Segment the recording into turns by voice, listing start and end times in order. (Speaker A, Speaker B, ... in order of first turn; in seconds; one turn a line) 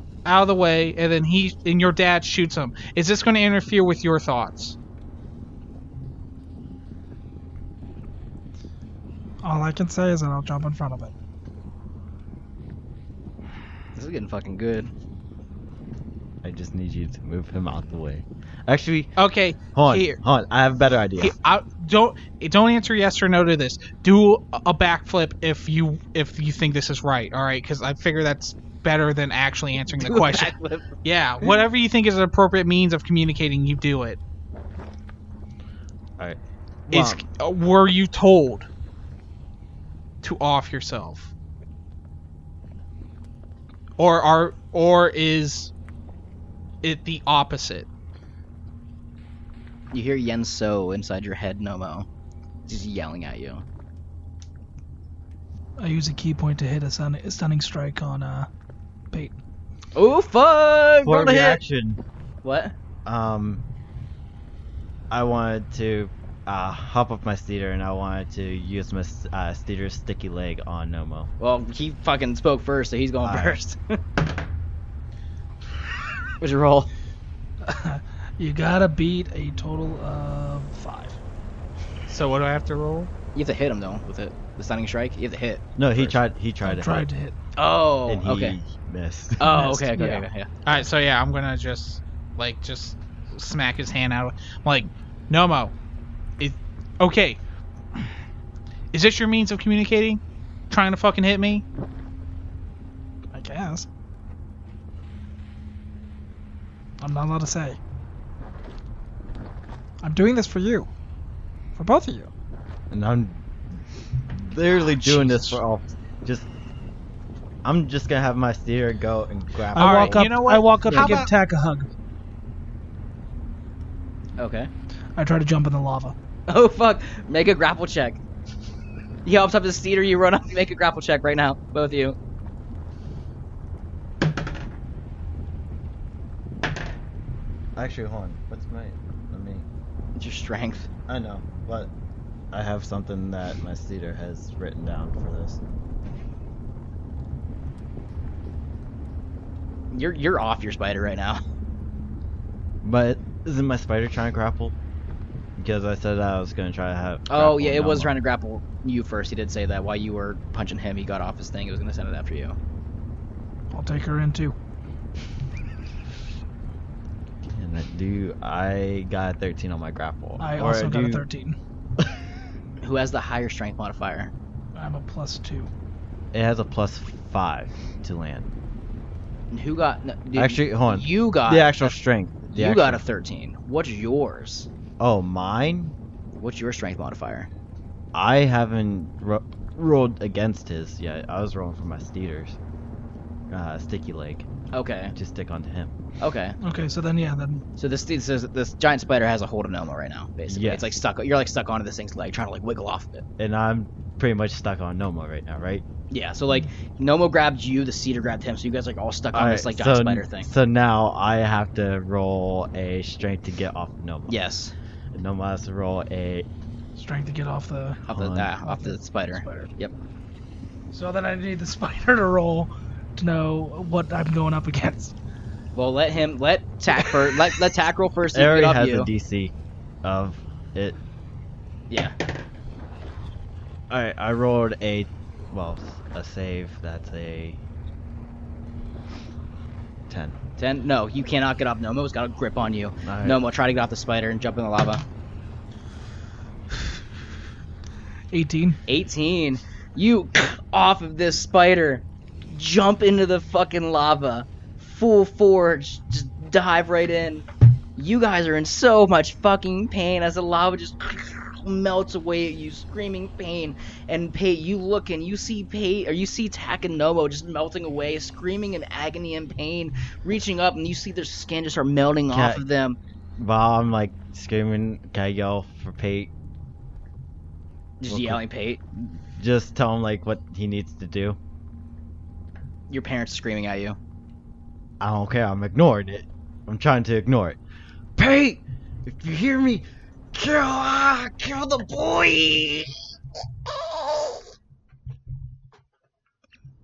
Speaker A: 0.2-4.8
Speaker B: 9.4-11.1
Speaker C: 13.9-14.9
Speaker D: 16.4-19.1
Speaker A: 19.2-20.2
Speaker D: 19.7-21.3
Speaker A: 21.2-34.2
Speaker C: 30.0-30.9
Speaker D: 36.2-37.2
Speaker A: 36.9-38.7
Speaker A: 40.2-41.3
Speaker A: 44.0-45.7
Speaker A: 46.8-47.9
Speaker C: 49.9-52.1
Speaker C: 52.7-53.6
Speaker B: 55.8-58.5
Speaker C: 59.9-61.6
Speaker D: 61.0-62.0
Speaker C: 62.4-62.7
Speaker D: 63.0-63.6
Speaker D: 65.1-71.3
Speaker C: 71.4-74.0
Speaker D: 73.2-73.6
Speaker C: 76.4-76.9
Speaker B: 77.6-81.2
Speaker A: 82.1-83.1
Speaker C: 83.3-86.2
Speaker D: 85.8-87.1
Speaker B: 86.6-87.3
Speaker C: 87.5-88.5
Speaker D: 88.1-89.5
Speaker C: 89.4-90.6
Speaker B: 89.4-90.3
Speaker A: 90.6-95.7
Speaker A: 96.4-97.4
Speaker A: 98.9-101.6
Speaker B: 103.3-103.9
Speaker B: 107.0-107.8
Speaker B: 110.0-110.9
Speaker B: 111.8-112.3
Speaker D: 112.9-116.5
Speaker A: 115.2-115.6
Speaker D: 117.6-120.3
Speaker B: 119.7-121.9
Speaker A: 119.8-121.3
Speaker C: 124.4-124.7
Speaker B: 125.2-126.1
Speaker C: 126.5-128.2
Speaker C: 129.2-132.2
Speaker D: 137.8-139.7
Speaker C: 140.2-140.9
Speaker D: 141.1-141.9
Speaker D: 142.5-145.6
Speaker C: 149.9-151.4
Speaker D: 152.8-154.8
Speaker D: 155.6-158.1
Speaker C: 157.3-162.6
Speaker B: 163.7-164.6
Speaker D: 167.5-171.2
Speaker B: 170.4-171.6
Speaker C: 172.8-174.3
Speaker B: 174.7-175.7
Speaker D: 176.3-178.5
Speaker C: 179.5-182.0
Speaker D: 180.3-183.0
Speaker C: 182.5-184.7
Speaker D: 185.0-185.9
Speaker C: 186.4-187.5
Speaker D: 188.1-192.6
Speaker D: 193.5-194.5
Speaker C: 194.7-195.1
Speaker D: 195.1-195.9
Speaker C: 196.2-196.6
Speaker B: 196.6-197.6
Speaker C: 197.8-203.2
Speaker D: 200.5-200.9
Speaker D: 203.4-205.8
Speaker C: 206.1-210.5
Speaker D: 209.3-214.4
Speaker C: 214.3-214.7
Speaker D: 215.1-216.5
Speaker B: 216.9-218.1
Speaker D: 218.1-218.5
Speaker C: 218.1-219.9
Speaker B: 218.6-219.7
Speaker B: 220.9-225.1
Speaker C: 225.7-229.1
Speaker D: 228.3-231.0
Speaker C: 231.9-232.1
Speaker D: 233.9-237.6
Speaker D: 240.1-240.4
Speaker C: 240.6-245.0
Speaker D: 243.0-243.4
Speaker B: 248.3-248.8
Speaker C: 248.9-257.4
Speaker C: 258.0-273.0
Speaker D: 272.3-272.6
Speaker D: 273.4-276.3
Speaker C: 278.0-278.8
Speaker D: 278.1-278.4
Speaker D: 278.9-281.4
Speaker C: 282.9-284.0
Speaker D: 285.0-287.6
Speaker D: 288.1-293.0
Speaker D: 293.7-294.4